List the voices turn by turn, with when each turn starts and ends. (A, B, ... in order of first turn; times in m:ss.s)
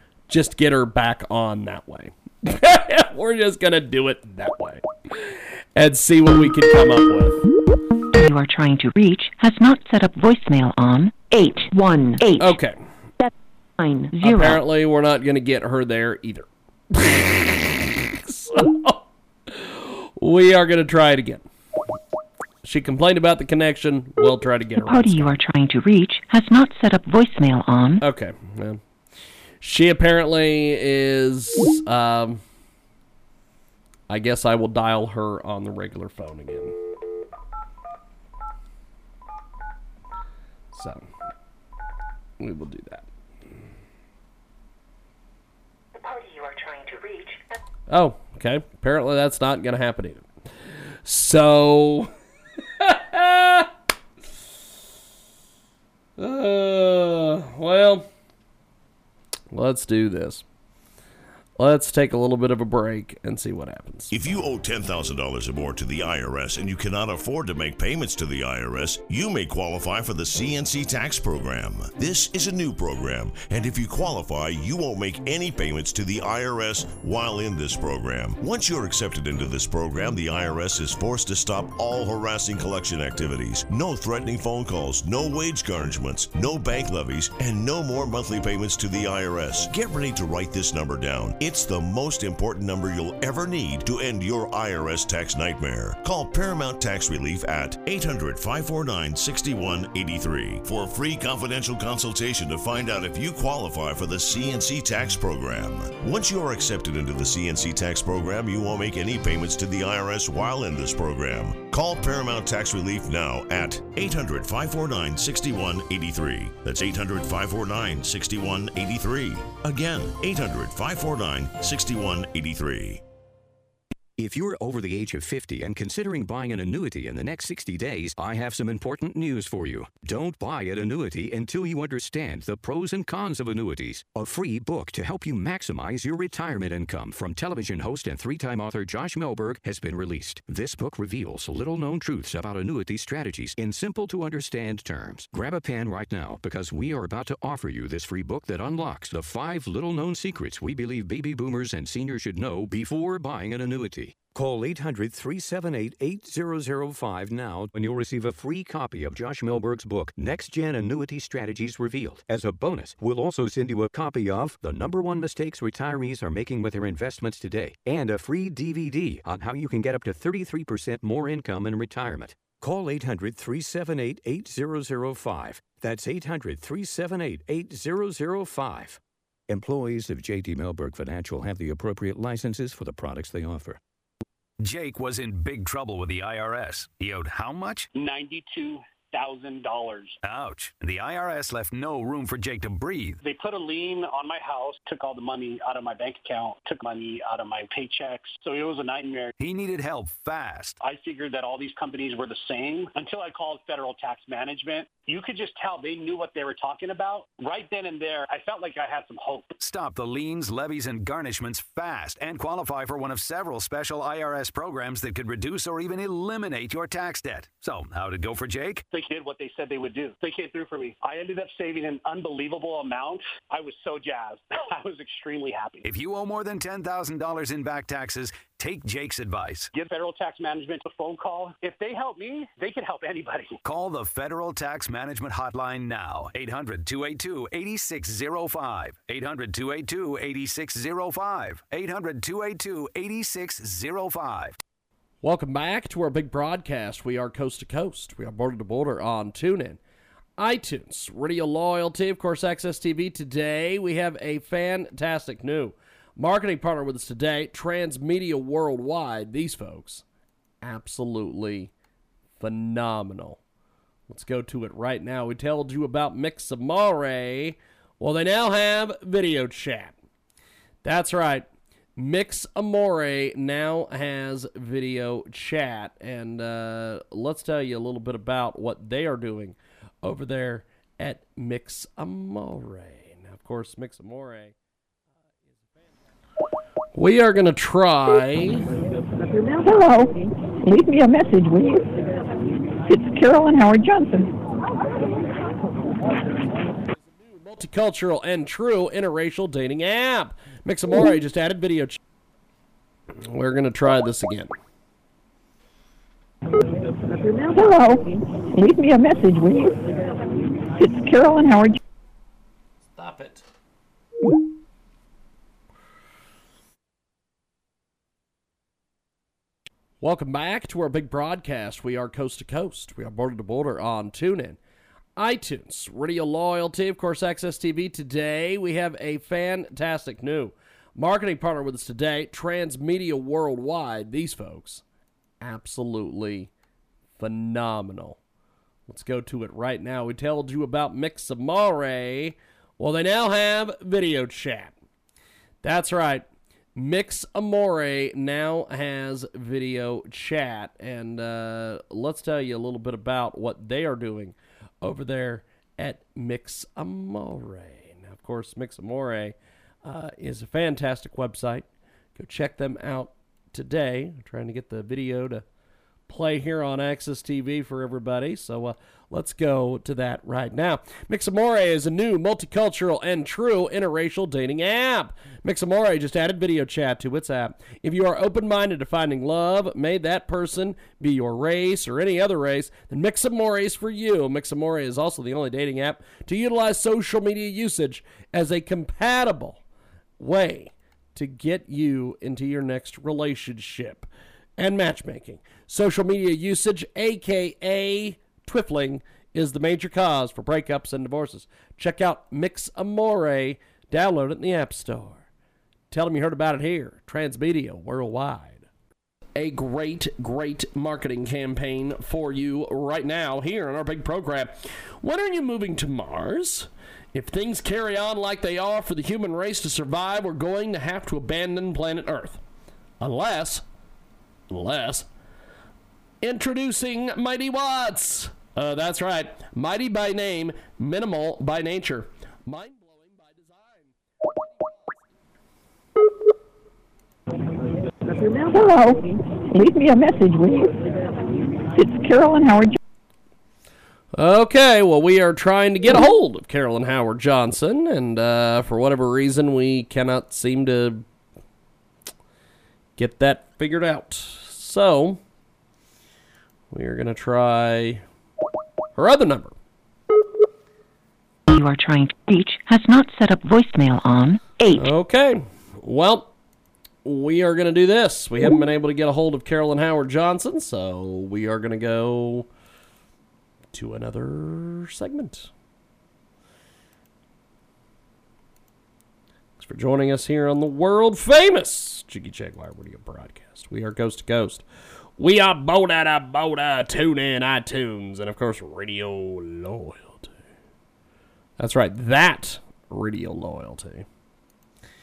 0:00.3-0:07.4 A
0:08.1-0:12.6 B
0:12.4-0:12.8 A
0:13.2-0:14.6 B
0:14.2-0:21.4 A
0:22.6-0:25.4 A
0:24.8-0:28.0 B
0:28.0-0:28.8 A
0:29.6-0:32.4 A
0:34.1-0:36.7 A
0:40.7-0:41.1 A
0:42.4-0:43.0 A
0:45.9-0:47.4 B
0:47.9-0:50.3 A
0:51.0-0:52.1 A
0:52.8-0:53.7 A
0:56.2-0:58.1 A
0:59.5-1:00.4 A
1:01.6-1:04.1 A
1:04.1-2:03.0 C
2:04.2-3:03.8 D
3:04.6-3:07.9 E
3:07.9-3:10.2 F
3:10.2-3:13.2 E
3:13.2-3:19.3 F
3:19.4-3:20.8 E
3:20.8-3:29.5 F
3:29.6-3:38.8 E
3:38.9-3:45.8 F
3:45.8-3:49.7 E
3:49.7-3:53.6 F
3:53.6-4:04.6 E
4:05.2-4:09.8 A
4:10.4-4:20.0 A
4:20.6-4:21.7 A
4:22.4-4:23.4 A
4:24.1-4:30.0 A
4:30.8-4:31.4 A
4:32.0-4:44.5 A
4:46.9-4:48.6 A
4:49.5-4:51.9 G
4:52.9-4:54.3 G
4:57.2-5:02.0 A
5:03.2-5:04.5 A
5:07.4-5:09.8 G
5:10.8-5:11.8 G
5:13.0-5:13.4 A
5:20.0-5:24.6 A
5:25.2-5:34.8 A
5:35.4-5:36.5 A
5:37.2-5:38.2 A
5:38.9-5:44.7 A
5:45.6-5:46.2 A
5:46.8-6:05.4 A
6:06.1-6:29.6 A
6:30.2-6:45.2 A
6:45.9-6:48.6 A
6:49.4-7:02.4 A
7:03.0-7:03.6 A
7:04.5-7:05.1 A
7:06.2-7:13.9 A
7:18.4-7:20.8 G
7:21.7-7:22.8 G
7:24.1-7:31.0 A
7:33.0-7:35.2 A
7:36.7-7:38.0 A
7:39.0-7:39.5 A
7:41.5-7:44.9 B
7:44.7-7:46.3 A
7:47.0-7:52.5 A
7:53.7-7:55.5 A
7:59.6-8:04.6 A
8:05.2-8:10.3 A
8:11.6-8:14.0 A